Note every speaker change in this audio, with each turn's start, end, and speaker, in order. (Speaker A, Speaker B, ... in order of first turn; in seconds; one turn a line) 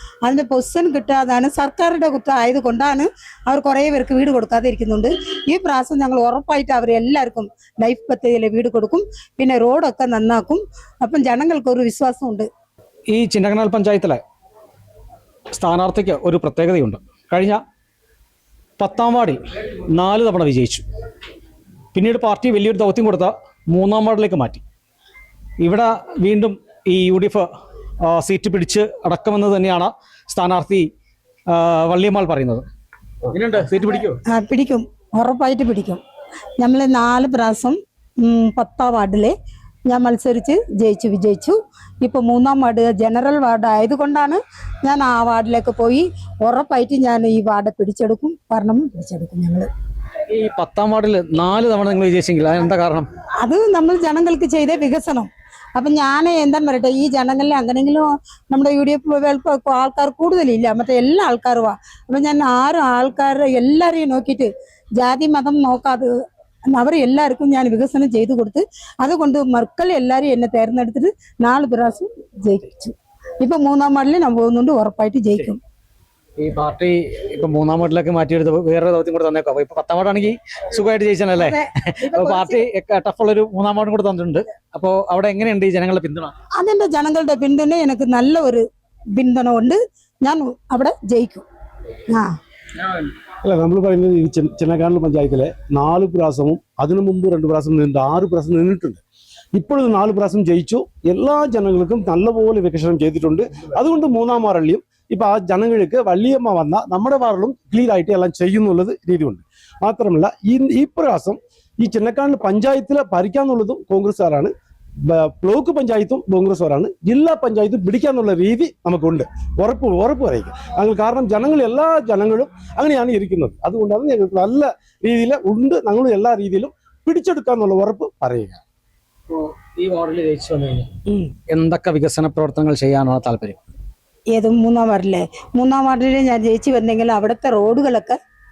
Speaker A: 0.2-12.5
Speaker B: 13.1-14.2
Speaker B: 15.5-17.6
Speaker B: 18.8-19.4
Speaker B: 19.9-20.8
Speaker B: 21.9-24.6
Speaker B: 25.6-27.5
Speaker B: 28.0-30.9
Speaker B: 31.5-32.6
Speaker B: 33.3-34.2
Speaker A: 34.2-36.0
Speaker A: 36.6-39.3
Speaker A: 39.9-49.7
Speaker B: 50.3-53.1
Speaker A: 53.4-66.1
Speaker A: 66.7-75.6
Speaker B: 76.4-86.3
Speaker A: 81.4-82.6
Speaker A: 86.5-88.6
Speaker A: 89.2-91.5
Speaker A: 92.1-92.4
Speaker C: 93.4-99.0
Speaker C: 99.5-114.5
Speaker C: 115.1-128.6
Speaker B: 129.3-130.9
Speaker A: 131.1-131.3
Speaker B: 131.5-133.6
Speaker A: 134.3-138.2